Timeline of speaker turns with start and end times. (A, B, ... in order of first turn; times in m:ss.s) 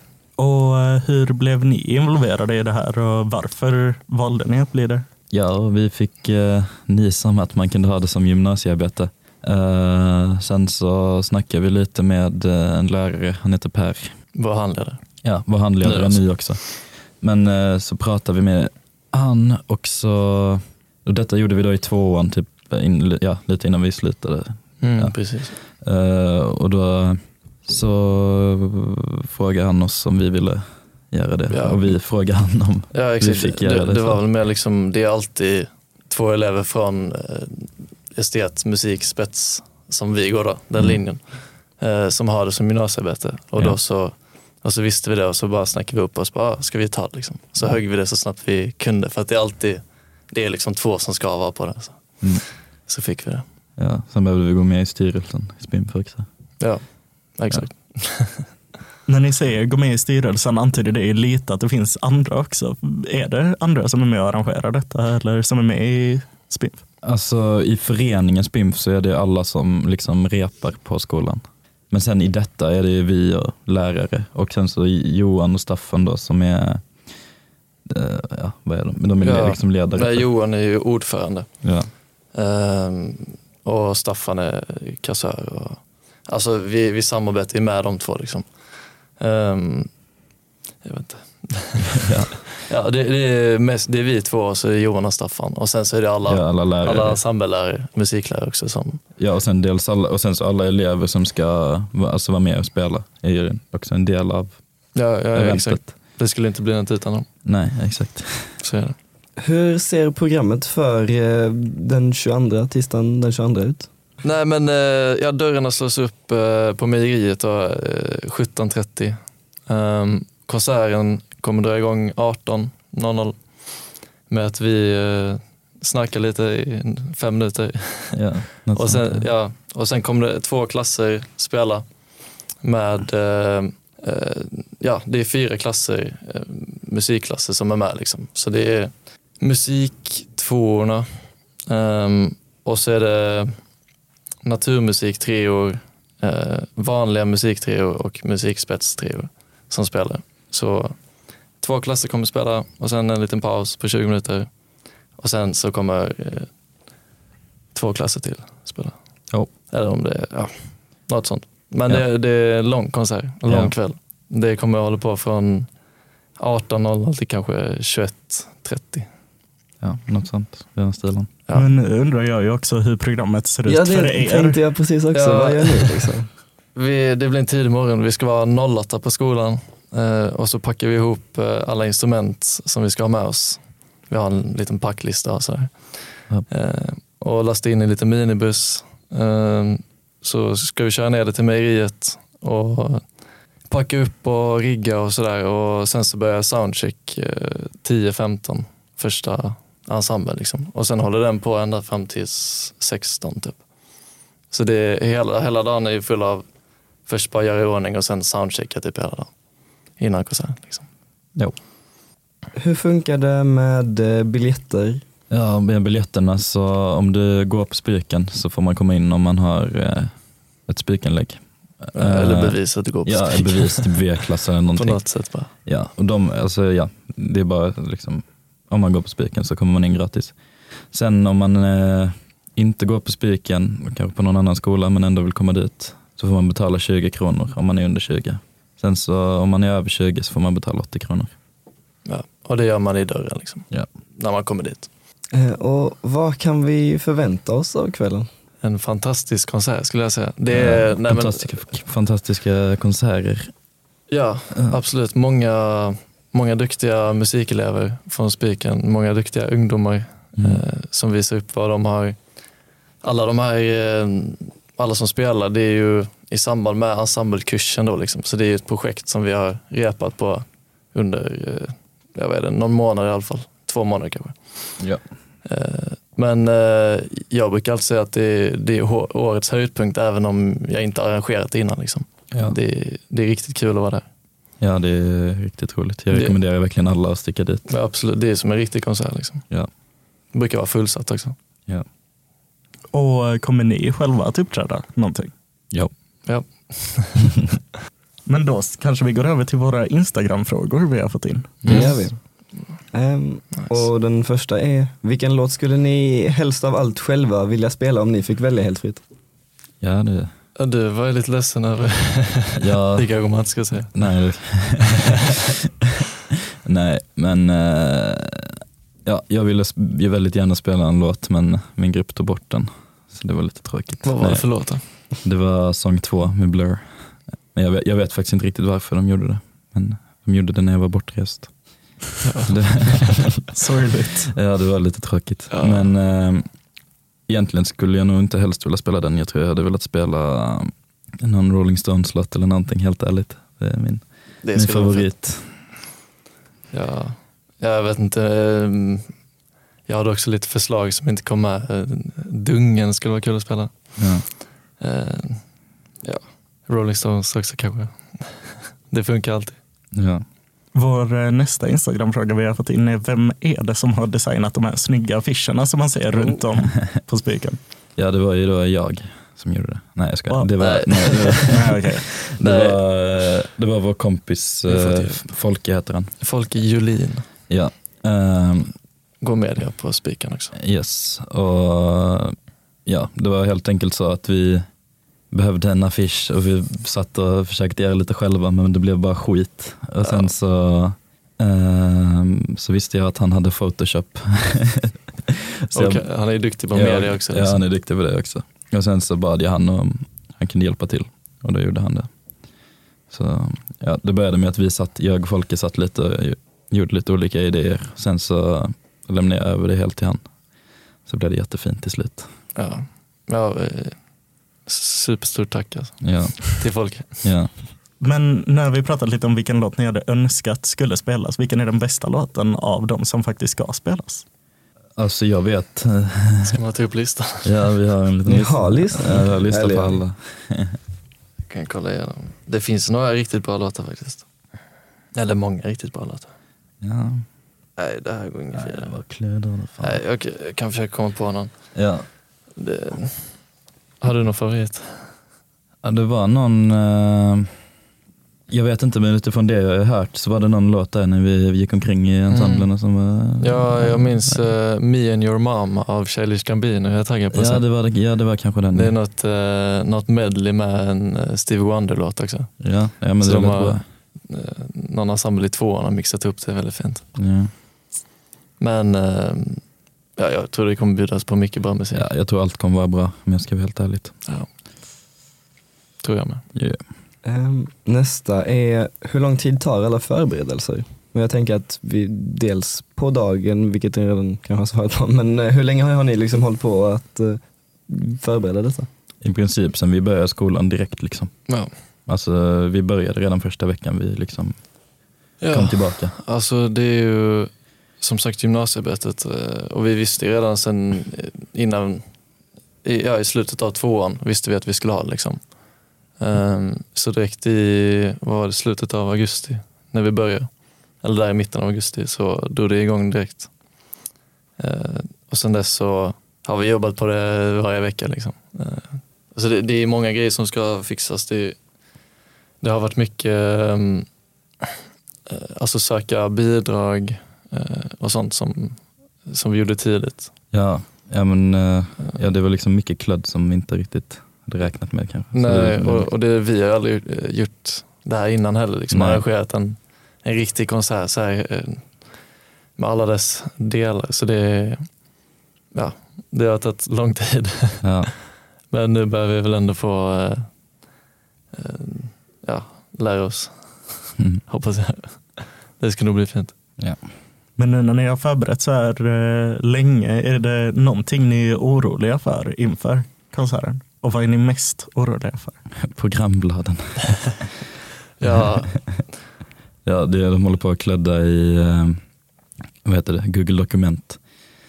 0:00.4-0:05.0 A
0:05.3-0:14.1 B
0:14.3-0:15.0 C
0:15.2-0:34.2 B
0:15.8-0:16.4 C
0:24.8-0:25.5 C
0:31.5-0:31.9 C
0:32.9-0:52.3 C
0:52.9-0:53.4 C
0:53.8-0:56.2 B
0:56.6-0:58.5 C
0:59.1-1:06.8 A
1:07.0-1:17.0 B
1:17.9-1:20.3 B
1:19.2-1:21.7 C
1:21.6-1:21.9 B
1:22.3-1:28.5 C
1:29.2-1:29.9 C
1:30.8-1:39.0 C
1:32.0-1:32.4 B
1:36.2-1:37.2 B
1:39.2-1:44.6 B
1:44.9-1:47.3 C
1:45.3-1:45.9 B
1:47.4-1:48.6 B
1:48.6-1:49.0 C
1:49.4-1:53.9 D
1:54.2-2:03.4 C
2:04.3-2:11.8 C
2:08.1-2:09.3 B
2:12.6-2:21.1 C
2:21.7-2:23.6 C
2:24.4-2:31.0 C
2:31.6-2:34.5 C
2:35.2-2:36.5 C
2:37.7-2:38.9 C
2:39.6-2:45.7 C
2:43.5-2:43.7 B
2:46.4-2:49.1 C
2:49.8-2:51.3 B
2:51.5-2:54.6 A
2:53.6-2:56.3 D
2:55.1-2:56.1 C
2:56.7-3:13.0 C
3:13.7-3:23.6 C
3:24.5-3:26.4 C
3:27.0-3:29.3 C
3:30.0-3:30.9 C
3:32.5-3:35.0 D
3:35.3-3:45.0 B
3:41.9-3:44.0 C
3:44.7-3:45.5 C
3:45.6-3:50.4 B
3:50.9-4:01.3 B
4:02.0-4:04.9 C
4:05.3-4:08.3 D
4:08.6-4:11.6 C
4:10.5-4:13.5 B
4:14.1-4:22.2 C
4:23.0-4:34.8 C
4:35.4-4:44.0 C
4:44.6-4:47.6 B
4:46.1-4:46.4 C
4:47.7-4:49.4 C
4:50.3-4:51.3 C
4:52.9-4:55.3 A
4:56.2-4:57.4 C
4:58.2-5:01.6 A
5:01.6-5:02.0 B
5:01.6-5:02.1 C
5:01.7-5:02.2 D
5:02.9-5:09.0 D
5:09.8-5:10.3 B
5:10.6-5:14.1 C
5:12.6-5:13.1 B
5:13.9-5:15.1 B
5:16.6-5:31.9 B
5:24.0-5:24.8 C
5:32.2-5:33.2 C
5:32.5-5:33.4 B
5:33.5-5:34.3 A
5:34.3-5:36.4 B
5:35.5-5:35.9 C
5:37.3-5:45.6 B
5:44.4-5:45.1 C
5:46.7-5:49.1 C
5:49.8-5:54.2 C
5:54.0-5:54.2 B
5:54.8-5:55.4 C
5:56.0-5:59.6 C
5:59.9-6:00.2 B
6:00.7-6:07.6 A
6:08.0-6:16.1 B
6:10.6-6:12.8 C
6:11.5-6:12.1 A
6:14.7-6:15.4 C
6:16.2-6:17.3 C
6:17.5-6:18.7 B
6:19.2-6:20.5 C
6:20.6-6:22.3 B
6:22.8-6:24.6 B
6:25.3-6:35.0 B
6:35.7-6:36.0 B
6:35.7-6:37.6 C
6:36.7-6:42.1 B
6:43.1-6:50.3 B
6:51.0-6:52.3 B
6:52.5-6:54.0 C
6:54.6-6:57.3 C
6:56.0-6:56.5 B
6:57.2-6:57.5 B
6:58.0-7:04.2 A
7:05.0-7:06.6 B
7:06.4-7:07.6 C
7:07.4-7:10.8 B
7:08.2-7:10.0 D
7:11.5-7:14.2 C
7:15.1-7:16.3 C
7:16.8-7:17.2 B
7:17.8-7:18.9 C
7:18.5-7:20.0 B
7:19.8-7:21.5 C
7:21.7-7:22.0 B
7:22.6-7:23.4 C
7:24.0-7:25.1 C
7:25.8-7:27.6 B
7:28.5-7:34.5 B
7:32.3-7:32.7 C
7:33.4-7:37.7 C
7:37.3-7:39.0 B
7:38.7-7:47.1 C
7:42.6-7:43.8 B
7:47.2-7:47.5 B
7:48.6-7:49.6 C
7:50.2-7:52.0 C
7:51.9-7:54.1 B
7:56.0-7:56.4 C
7:56.5-7:56.8 B
7:57.2-8:08.9 D
8:09.2-8:11.3 B
8:12.1-8:14.6 B
8:15.4-8:22.0 C
8:15.5-8:16.1 B
8:22.8-8:25.4 C
8:26.2-8:30.5 C
8:31.0-8:33.5 C
8:34.6-8:41.6 C
8:42.6-8:44.1 C
8:45.3-8:50.3 C
8:50.5-8:56.1 B
8:55.3-9:01.9 C
8:58.9-8:59.2 B
9:02.8-9:04.9 C
9:05.7-9:07.9 C
9:07.8-9:08.1 B
9:08.7-9:10.5 C
9:11.5-9:16.5 C
9:17.6-9:25.6 A
9:25.8-9:27.5 B
9:28.2-9:28.8 C
9:29.8-9:32.0 B
9:32.8-9:34.2 B